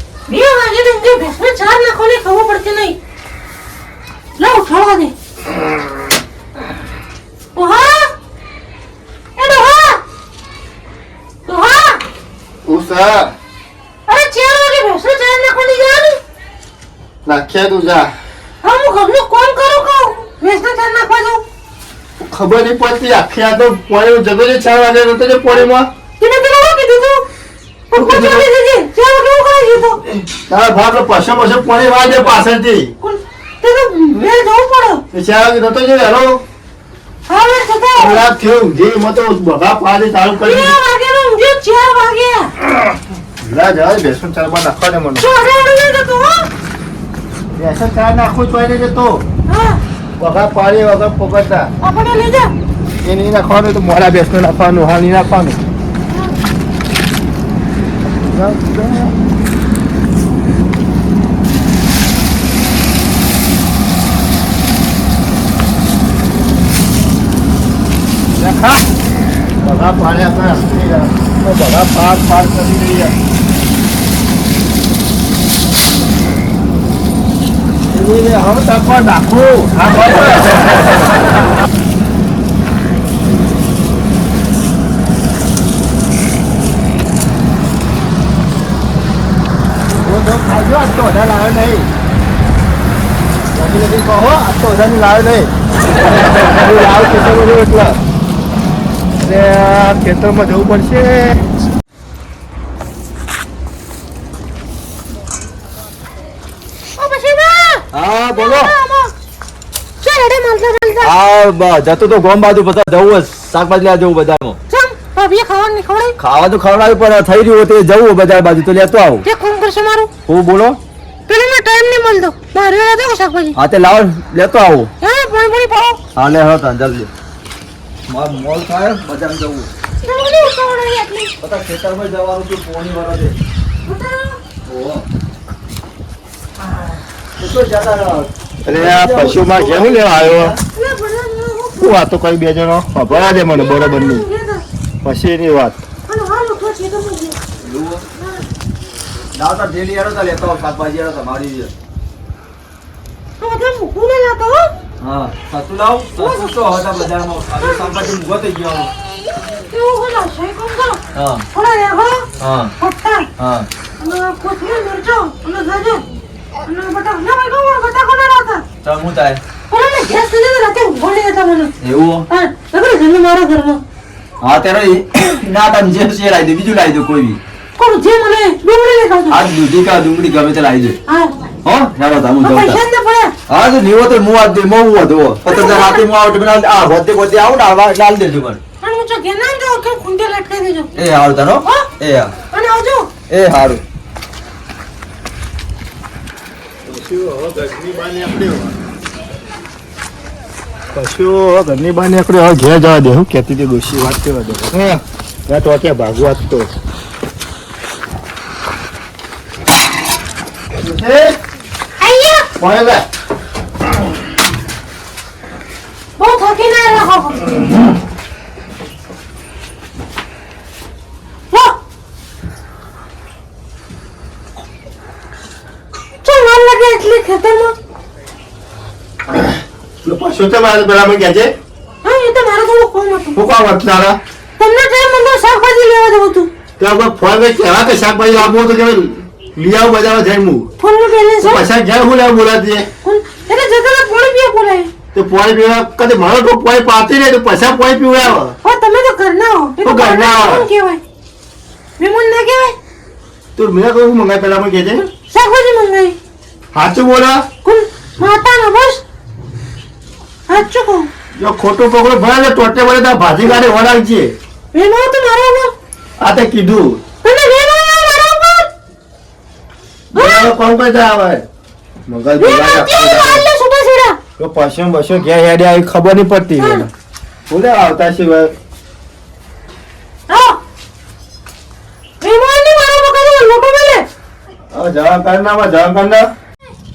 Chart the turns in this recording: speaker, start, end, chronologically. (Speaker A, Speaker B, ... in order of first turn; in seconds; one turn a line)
Speaker A: 0.3-3.0
Speaker A: 4.4-5.1
Speaker A: 7.5-8.1
Speaker A: 9.3-10.0
Speaker A: 11.4-12.0
Speaker B: 12.7-13.3
Speaker A: 14.1-16.2
Speaker B: 17.2-18.1
Speaker A: 18.6-21.4
Speaker B: 22.2-25.9
Speaker A: 26.2-27.3
Speaker A: 27.9-30.0
Speaker B: 27.9-28.5
Speaker B: 30.5-32.9
Speaker A: 33.0-35.0
Speaker B: 35.1-36.4
Speaker A: 37.3-38.2
Speaker B: 37.9-40.8
Speaker A: 40.4-42.5
Speaker B: 43.4-45.2
Speaker A: 45.2-46.5
Speaker B: 47.5-49.2
Speaker A: 49.5-49.8
Speaker B: 50.2-51.7
Speaker A: 51.8-52.5
Speaker B: 53.0-55.6
Speaker B: 58.2-59.1
Speaker B: 68.4-68.8
Speaker B: 69.6-73.2
Speaker B: 77.9-80.6
Speaker B: 90.0-91.9
Speaker B: 93.5-95.5
Speaker B: 96.5-98.0
Speaker B: 99.2-101.4
Speaker A: 107.0-109.1
Speaker C: 107.9-108.8
Speaker A: 110.0-111.1
Speaker C: 111.0-114.6
Speaker A: 114.7-116.2
Speaker C: 116.2-119.2
Speaker A: 119.2-120.1
Speaker C: 120.3-120.8
Speaker A: 121.3-123.6
Speaker C: 123.5-124.9
Speaker A: 125.0-126.0
Speaker C: 126.2-127.1
Speaker C: 128.1-129.7
Speaker A: 130.0-131.3
Speaker C: 131.4-133.4
Speaker A: 133.8-134.4
Speaker C: 134.7-135.0
Speaker C: 137.4-140.6
Speaker B: 138.6-140.6
Speaker A: 140.7-142.0
Speaker B: 141.8-144.2
Speaker A: 143.1-144.6
Speaker B: 145.0-145.8
Speaker A: 146.1-147.4
Speaker C: 147.6-148.0
Speaker A: 148.2-148.4
Speaker C: 149.3-151.7
Speaker A: 153.4-154.7
Speaker C: 155.0-158.9
Speaker A: 156.2-156.5
Speaker A: 157.6-157.9
Speaker A: 159.4-161.0
Speaker C: 161.1-161.4
Speaker A: 161.5-163.3
Speaker C: 162.4-162.7
Speaker C: 163.4-163.7
Speaker A: 164.0-166.1
Speaker A: 166.6-168.6
Speaker C: 168.8-169.4
Speaker A: 169.7-171.7
Speaker C: 171.8-172.2
Speaker A: 172.3-173.8
Speaker C: 174.4-177.4
Speaker A: 177.8-179.4
Speaker C: 179.3-181.0
Speaker A: 181.1-181.3
Speaker C: 181.6-182.8
Speaker A: 182.4-183.3
Speaker C: 183.5-188.6
Speaker A: 185.5-186.0
Speaker A: 188.8-190.9
Speaker C: 190.9-192.3
Speaker A: 191.6-191.9
Speaker A: 192.5-193.1
Speaker C: 193.3-193.8
Speaker B: 196.9-198.8
Speaker B: 200.9-206.7
Speaker B: 210.8-211.4
Speaker A: 212.0-212.5
Speaker B: 212.6-213.0
Speaker A: 216.2-217.5
Speaker A: 221.5-221.8
Speaker A: 226.2-227.7
Speaker B: 230.0-231.5
Speaker A: 232.0-233.4
Speaker B: 233.3-234.2
Speaker A: 234.6-236.5
Speaker B: 236.8-240.7
Speaker A: 240.8-241.6
Speaker B: 241.4-242.9
Speaker A: 243.0-244.9
Speaker B: 245.1-248.5
Speaker A: 248.6-251.0
Speaker B: 249.8-250.7
Speaker A: 252.0-252.8
Speaker B: 253.6-255.1
Speaker A: 255.2-256.1
Speaker B: 256.7-257.4
Speaker A: 257.6-259.0
Speaker A: 260.5-261.1
Speaker B: 261.4-264.3
Speaker A: 264.7-265.7
Speaker B: 266.2-267.0
Speaker A: 267.2-268.7
Speaker A: 270.1-270.5
Speaker B: 270.1-271.4
Speaker B: 272.1-273.5
Speaker A: 272.4-274.2
Speaker B: 274.4-276.9
Speaker A: 276.6-276.9
Speaker B: 277.5-278.5
Speaker A: 280.3-280.6
Speaker A: 282.2-284.1
Speaker B: 284.7-286.3